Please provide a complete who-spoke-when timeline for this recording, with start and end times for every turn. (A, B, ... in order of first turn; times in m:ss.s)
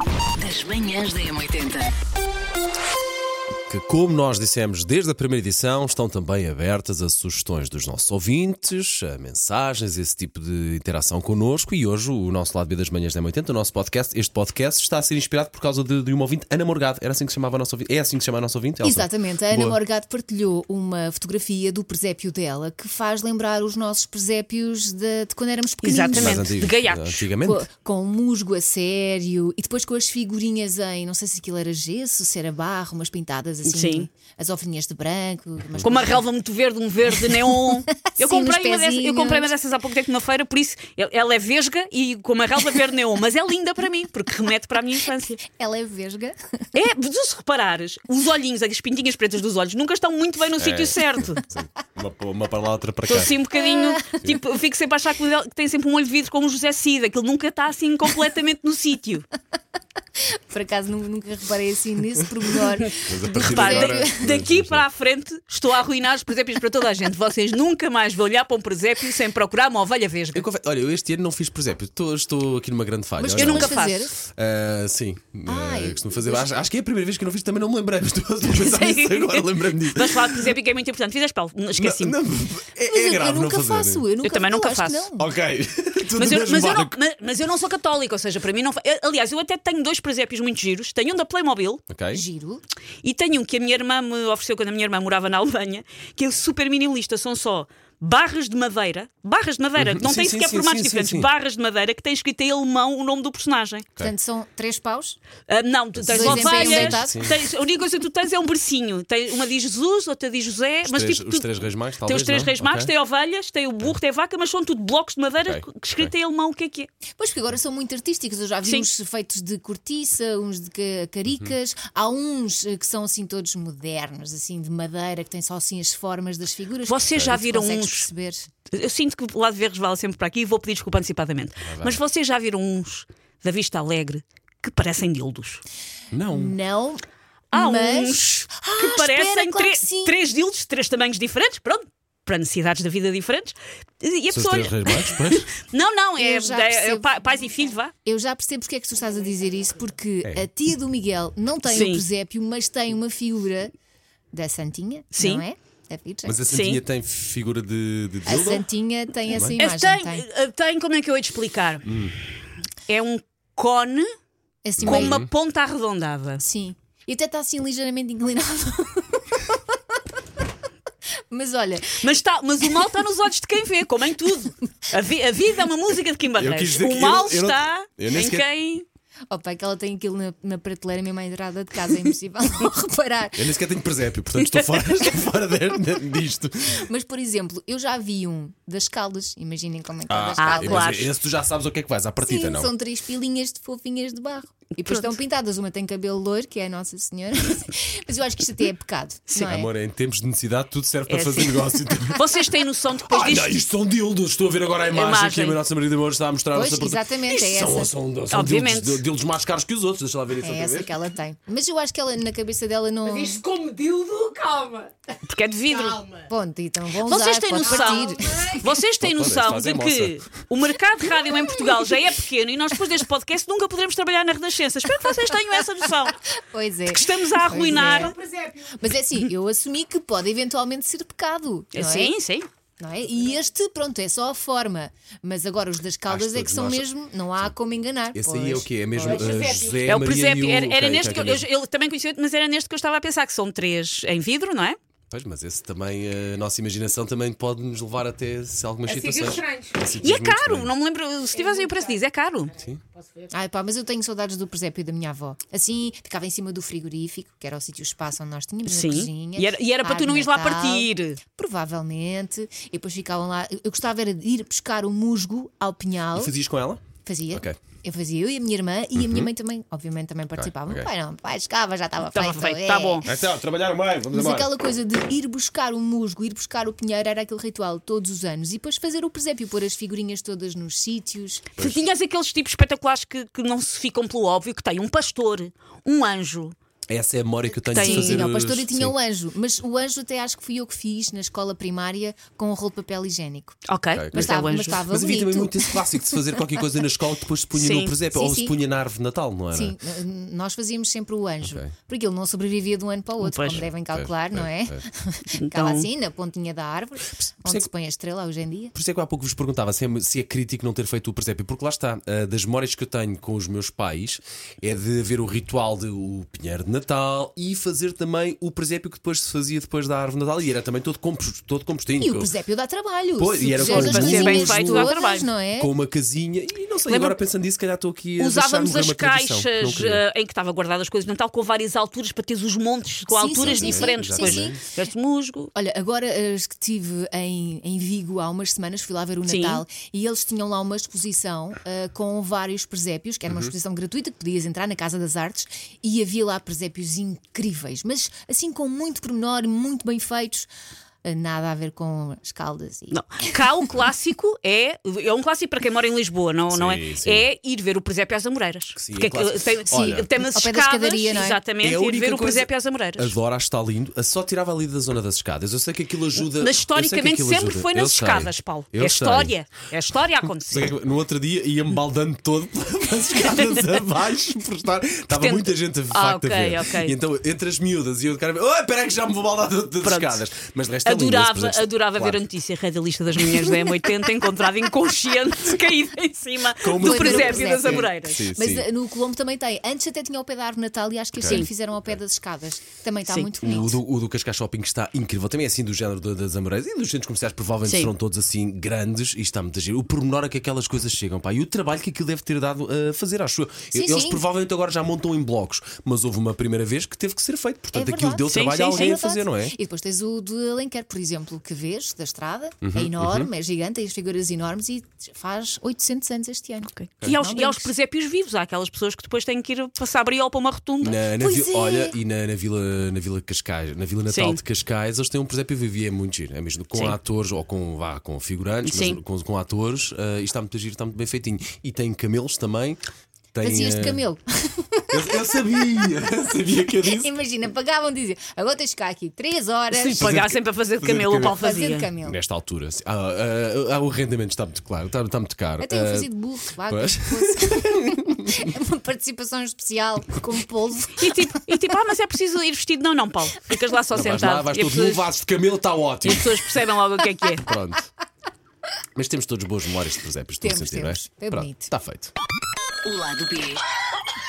0:00.4-0:01.9 A
0:03.7-0:19.8 B
0:18.8-0:26.6 C
0:25.8-0:27.2 D
0:26.1-0:27.6 B
0:27.4-0:36.2 C
0:33.6-0:34.1 D
0:35.8-0:45.4 D
0:37.2-0:39.5 C
0:45.5-0:46.6 C
0:46.7-0:51.4 D
0:50.6-0:53.3 B
0:53.1-0:59.3 D
0:53.7-0:54.2 C
1:00.2-1:04.2 C
1:03.0-1:04.8 B
1:03.3-1:10.4 D
1:10.3-1:20.5 B
1:13.2-1:14.2 C
1:13.4-1:14.1 D
1:15.5-1:16.6 C
1:18.4-1:22.2 D
1:21.8-1:24.0 B
1:22.8-1:25.2 C
1:24.2-1:25.1 D
1:25.2-1:27.0 B
1:26.2-1:31.8 D
1:31.9-1:32.2 B
1:32.1-1:32.6 C
1:33.0-1:43.9 D
1:39.8-1:41.3 B
1:44.0-1:45.2 C
1:45.5-1:51.5 D
1:46.0-1:47.4 B
1:46.1-1:47.2 C
1:50.8-1:52.9 B
1:52.0-1:56.9 D
1:55.4-1:56.1 B
1:57.2-2:08.5 C
2:06.8-2:08.1 D
2:08.7-2:15.6 D
2:11.6-2:12.0 B
2:16.1-2:16.6 B
2:16.3-2:17.0 C
2:17.5-2:27.9 D
2:17.5-2:20.2 C
2:24.3-2:25.5 B
2:26.2-2:27.2 C
2:28.0-2:33.7 C
2:31.6-2:32.0 D
2:34.3-2:36.4 C
2:35.1-2:35.4 D
2:36.2-2:38.6 B
2:36.5-2:36.8 D
2:38.2-2:40.2 C
2:39.3-2:39.6 B
2:39.6-2:41.8 D
2:41.8-2:42.2 B
2:42.9-2:44.1 D
2:44.6-2:45.2 C
2:44.8-2:45.3 B
2:44.8-2:46.4 D
2:46.4-2:49.6 C
2:51.3-2:52.0 C
2:51.9-2:58.8 D
2:56.4-2:58.4 B
2:59.3-3:03.5 C
3:03.4-3:06.9 B
3:04.4-3:05.2 D
3:06.7-3:11.0 C
3:10.1-3:12.7 B
3:10.4-3:11.1 D
3:12.2-3:19.7 C
3:14.8-3:15.1 D
3:19.4-3:22.4 B
3:21.1-3:23.6 D
3:23.0-3:30.9 B
3:24.9-3:25.6 D
3:26.5-3:27.9 C
3:28.3-3:29.0 D
3:30.4-3:33.5 C
3:33.4-3:34.9 E
3:35.2-3:36.0 D
3:36.1-3:38.6 C
3:37.0-3:46.2 D
3:39.0-3:40.1 B
3:46.4-3:52.1 C
3:46.9-3:48.1 D
3:51.7-3:52.5 D
3:52.8-3:59.5 C
3:56.1-3:56.9 B
3:58.1-4:01.4 B
3:59.2-3:59.7 E
3:59.8-4:04.8 D
4:05.1-4:10.7 B
4:10.0-4:12.6 D
4:13.3-4:26.3 C
4:18.6-4:21.2 D
4:26.1-4:26.8 B
4:27.0-4:33.0 C
4:29.0-4:29.3 B
4:30.4-4:30.9 B
4:32.1-4:33.1 D
4:33.0-4:34.5 B
4:34.1-4:41.5 C
4:41.6-4:46.5 D
4:46.9-4:48.9 B
4:47.7-4:48.3 D
4:47.7-4:53.5 C
4:53.6-4:54.9 D
4:53.9-4:59.8 B
4:54.1-4:55.8 C
4:57.5-4:57.9 D
4:58.1-4:58.6 C
4:59.5-5:08.7 C
5:01.4-5:01.7 B
5:03.2-5:03.6 D
5:03.5-5:04.8 B
5:05.4-5:05.9 D
5:07.4-5:07.7 B
5:08.7-5:22.3 B
5:22.0-5:25.7 C
5:23.2-5:24.9 B
5:23.6-5:25.3 D
5:25.6-5:30.0 B
5:26.9-5:27.2 D
5:28.2-5:35.5 D
5:33.1-5:34.6 C
5:33.3-5:34.6 B
5:35.5-5:50.5 C
5:39.2-5:39.6 D
5:51.0-5:53.0 C
5:52.9-6:03.1 D
5:56.5-5:57.3 B
5:58.8-6:00.1 B
5:59.7-6:01.4 C
6:01.6-6:09.3 B
6:06.2-6:10.7 D
6:10.5-6:22.2 B
6:13.1-6:13.9 D
6:15.1-6:17.0 D
6:19.8-6:20.2 D
6:20.8-6:28.2 D
6:26.6-6:28.7 B
6:26.8-6:33.8 C
6:31.2-6:31.5 B
6:33.1-6:33.4 D
6:33.4-6:49.6 B
6:37.6-6:37.9 D
6:43.7-6:44.2 C
6:47.7-6:57.7 C
6:48.3-6:49.0 D
6:52.6-6:53.3 B
6:56.8-7:01.0 D
7:00.8-7:12.8 B
7:01.2-7:02.0 C
7:04.1-7:04.4 D
7:08.6-7:09.0 D
7:13.3-7:14.0 B
7:13.4-7:15.8 C
7:14.9-7:17.1 B
7:16.7-7:20.1 C
7:19.7-7:21.9 D
7:20.0-7:21.4 B
7:21.3-7:22.2 C
7:22.0-7:28.5 B
7:25.6-7:31.4 C
7:31.0-7:35.0 D
7:33.9-7:36.4 B
7:36.0-7:37.5 D
7:37.4-7:37.9 B
7:39.0-7:42.1 B
7:40.4-7:41.7 C
7:42.8-7:43.6 A